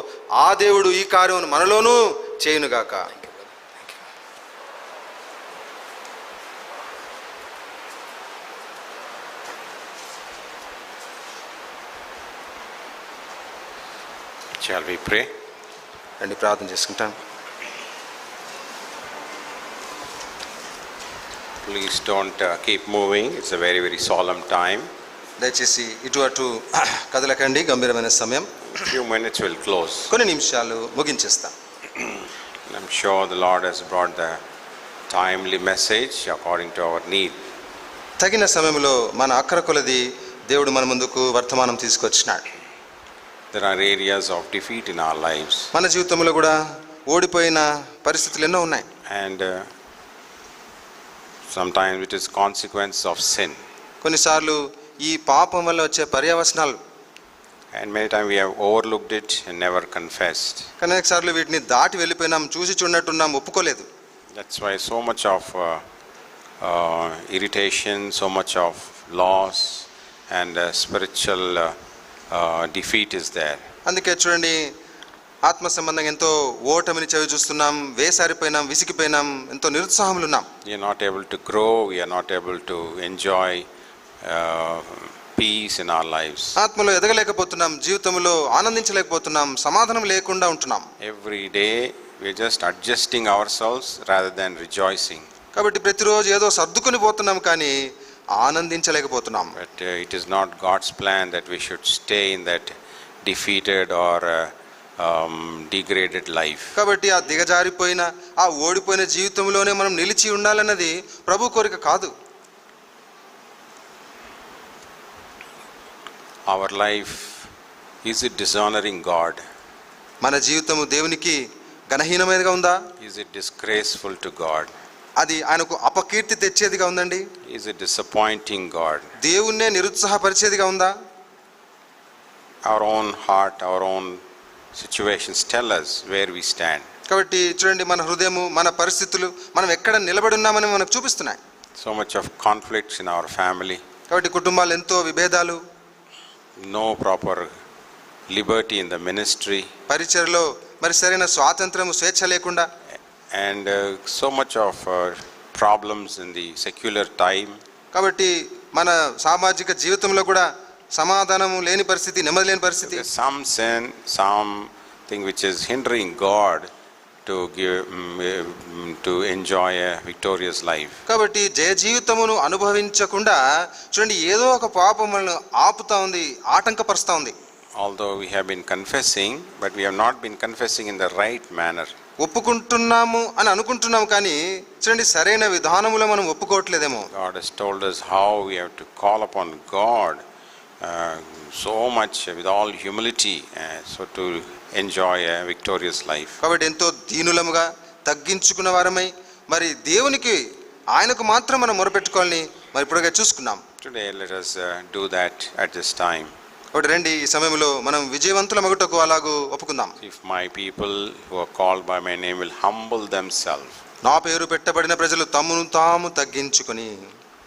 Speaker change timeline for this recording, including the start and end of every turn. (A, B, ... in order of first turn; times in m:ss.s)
0:00.4-0:03.1 A
0:14.6-0:15.3 B
0:16.2-0:17.2 A
0:21.6-0:24.9 B
0:25.4-0:28.5 A
0:28.8-0:30.1 B
0:30.1-0:31.5 A
0:32.0-0:34.4 B
0:35.1-0:37.4 B
0:38.2-0:42.4 A
0:43.5-0:45.7 B
0:45.7-0:46.6 A
0:47.1-0:48.8 A
0:49.1-0:49.7 B
0:51.5-0:53.6 B
0:54.0-0:56.8 A
0:57.7-1:00.7 B
1:00.8-1:03.9 A
1:04.4-1:05.8 B
1:06.6-1:11.8 B
1:12.3-1:13.6 B
1:13.9-1:14.6 A
1:15.4-1:20.5 A
1:20.6-1:23.7 B
1:24.2-1:26.6 B
1:26.6-1:30.9 A
1:31.0-1:35.3 B
1:35.6-1:37.8 A
1:38.4-1:39.6 A
1:39.6-1:46.8 B
1:46.8-1:52.1 A
1:56.5-1:57.5 B
1:58.0-1:59.4 B
2:00.2-2:01.4 A
2:01.9-2:02.8 A
2:03.0-2:04.7 B
2:05.2-2:07.2 A
2:07.4-2:09.1 B
2:09.2-2:10.9 A
2:12.6-2:14.2 B
2:14.8-2:16.9 B
2:17.1-2:21.4 A
2:21.8-2:23.8 B
2:24.1-2:25.6 A
2:26.6-2:27.5 B
2:28.3-2:29.7 B
2:29.9-2:32.7 A
2:33.3-2:37.6 B
2:37.9-2:43.1 A
2:42.8-2:46.7 B
2:47.3-2:51.0 B
2:51.1-2:53.4 A
2:53.9-2:57.3 A
2:57.8-3:01.9 B
3:02.2-3:07.1 A
3:07.1-3:10.2 B
3:10.8-3:16.4 B
3:16.4-3:20.4 A
3:20.9-3:23.6 A
3:23.8-3:26.3 B
3:26.7-3:30.0 A
3:30.0-3:33.8 B
3:34.0-3:36.9 A